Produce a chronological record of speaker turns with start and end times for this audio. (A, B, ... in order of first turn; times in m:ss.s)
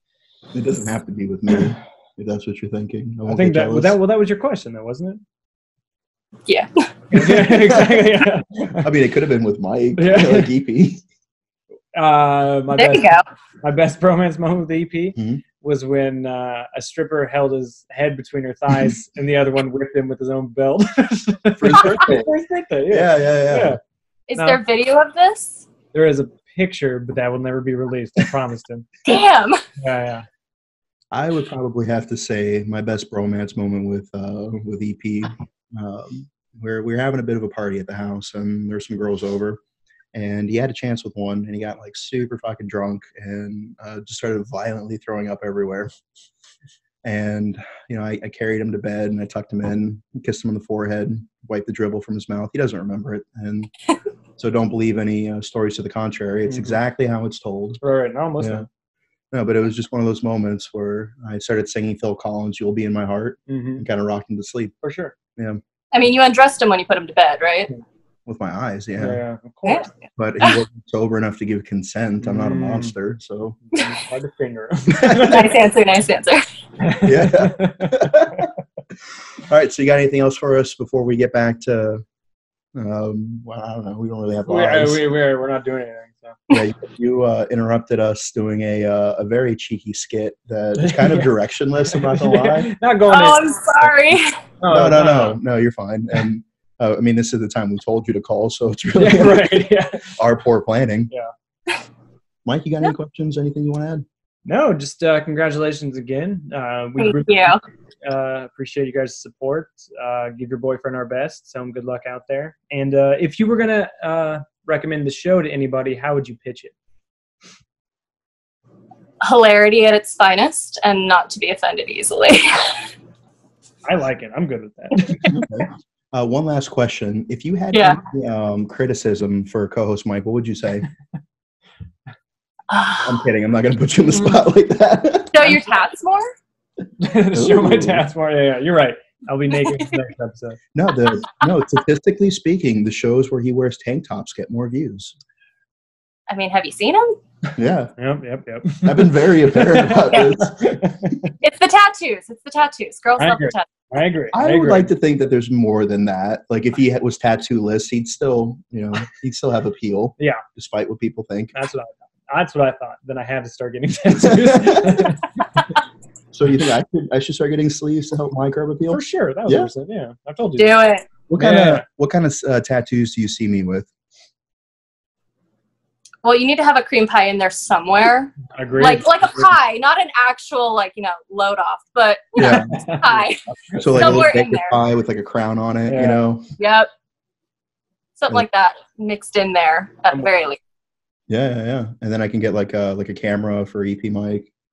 0:00.5-0:04.0 A
0:03.2-0:05.2 B
0:06.5-0:07.3 C
0:07.1-0:08.8 B
0:07.6-0:08.0 A
0:08.8-0:11.0 A
0:10.0-0:10.5 B
0:11.9-0:23.8 B
0:12.7-0:13.2 C
0:15.2-0:15.4 A
0:21.6-0:22.3 A
0:22.9-0:23.8 A
0:24.3-0:25.6 C
0:25.9-0:28.8 B
0:29.0-0:29.6 C
0:29.8-0:30.2 B
0:31.1-0:39.6 A
0:40.1-0:45.9 A
0:47.0-0:53.7 A
0:54.4-0:57.8 A
0:56.5-0:56.8 B
0:57.8-0:58.6 B
0:58.4-0:58.6 A
0:59.3-1:04.7 A
1:03.5-1:03.8 B
1:04.8-1:05.1 B
1:05.4-1:05.6 A
1:05.9-1:07.7 C
1:08.2-1:09.2 A
1:09.0-1:09.9 B
1:10.2-1:13.6 A
1:12.2-1:12.9 B
1:13.7-1:15.4 B
1:15.1-1:16.4 C
1:16.8-1:17.9 B
1:17.0-1:18.5 A
1:19.4-1:22.0 A
1:22.7-1:25.0 A
1:24.5-1:26.4 B
1:26.5-1:32.7 A
1:30.8-1:31.3 B
1:32.0-1:33.5 B
1:33.1-1:34.4 C
1:34.6-1:35.4 B
1:34.7-1:41.1 A
1:39.0-1:40.0 B
1:42.4-1:44.0 A
1:44.4-1:56.7 B
1:47.0-1:47.6 C
1:59.2-2:02.9 C
2:03.8-2:05.2 B
2:05.0-2:05.3 C
2:05.3-2:10.8 A
2:07.7-2:08.0 C
2:12.7-2:13.2 C
2:13.0-2:15.6 A
2:15.3-2:16.3 C
2:17.0-2:20.6 B
2:17.3-2:18.1 A
2:20.7-2:25.1 A
2:26.3-2:27.2 C
2:27.5-2:27.9 A
2:28.0-2:31.1 B
2:28.8-2:30.7 A
2:31.4-2:33.7 C
2:33.2-2:34.9 B
2:34.3-2:41.5 A
2:41.5-2:45.2 B
2:44.3-2:44.7 A
2:46.3-2:49.7 A
2:48.9-2:50.8 B
2:50.6-2:51.0 C
2:51.3-2:53.9 A
2:51.4-2:51.8 B
2:56.2-3:04.8 C
2:58.5-2:59.0 B
3:02.4-3:02.7 A
3:02.6-3:04.1 B
3:03.8-3:06.4 A
3:05.8-3:06.2 B
3:06.6-3:06.9 C
3:08.2-3:10.6 C
3:11.3-3:14.5 A